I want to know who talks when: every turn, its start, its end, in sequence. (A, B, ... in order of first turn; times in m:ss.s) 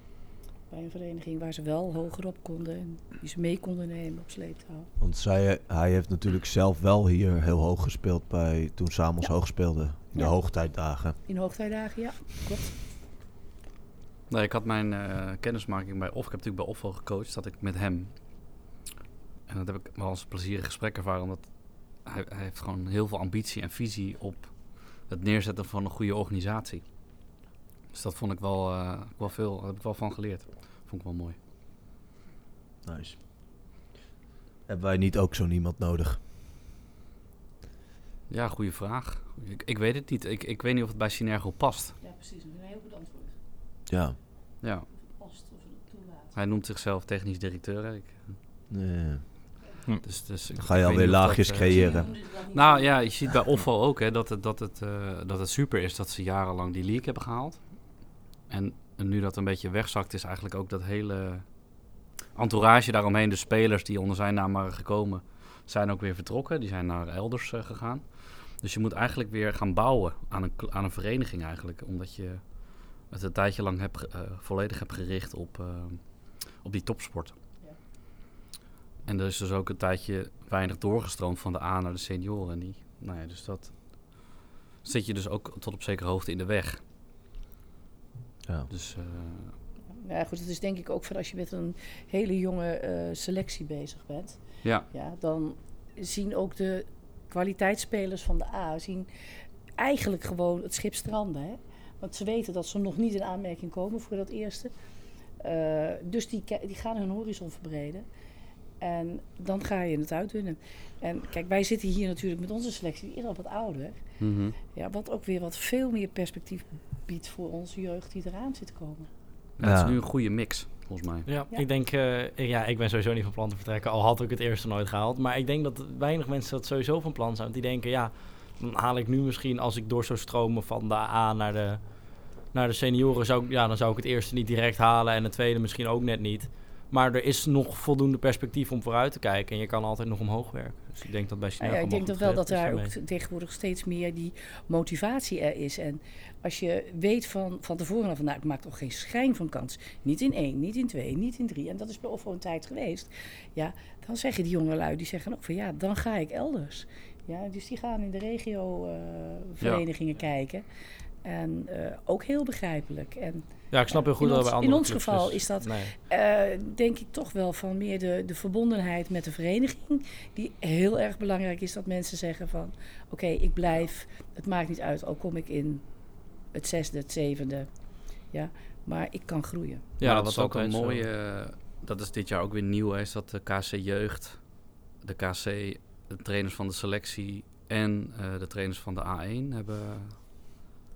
0:00.7-0:04.9 A
0:05.0-0:11.2 B
0:11.3-0:12.7 A
0:14.3-0:18.1 C
0:19.5-0:26.8 C
0:27.9-0:31.4 C
0:32.8-0:33.2 B
0:34.7-0:36.2 B
0:38.3-0:42.0 C
0:42.0-0:43.3 A
0:43.9-0:44.2 B
0:45.2-0:46.3 A
0:46.3-0:48.4 C
0:48.7-0:49.2 B
0:50.0-0:57.8 C
0:50.6-0:52.1 B
0:51.8-0:52.9 A
0:58.5-1:01.5 C
1:02.4-1:08.0 C
1:08.6-1:12.4 C
1:13.0-1:17.4 C
1:19.1-1:26.8 C
1:28.7-1:29.5 C
1:30.0-1:39.1 A
1:39.8-1:44.7 A
1:45.4-1:48.0 A
1:48.8-1:54.0 A
1:54.2-1:54.6 C
1:54.7-1:59.1 A
1:59.6-2:01.3 C
1:59.6-2:00.0 B
2:01.3-2:22.9 D
2:21.6-2:40.6 A
2:41.2-2:57.8 A
2:43.7-2:46.0 D
2:58.3-2:59.8 A
3:00.0-3:01.0 D
3:00.0-3:10.3 C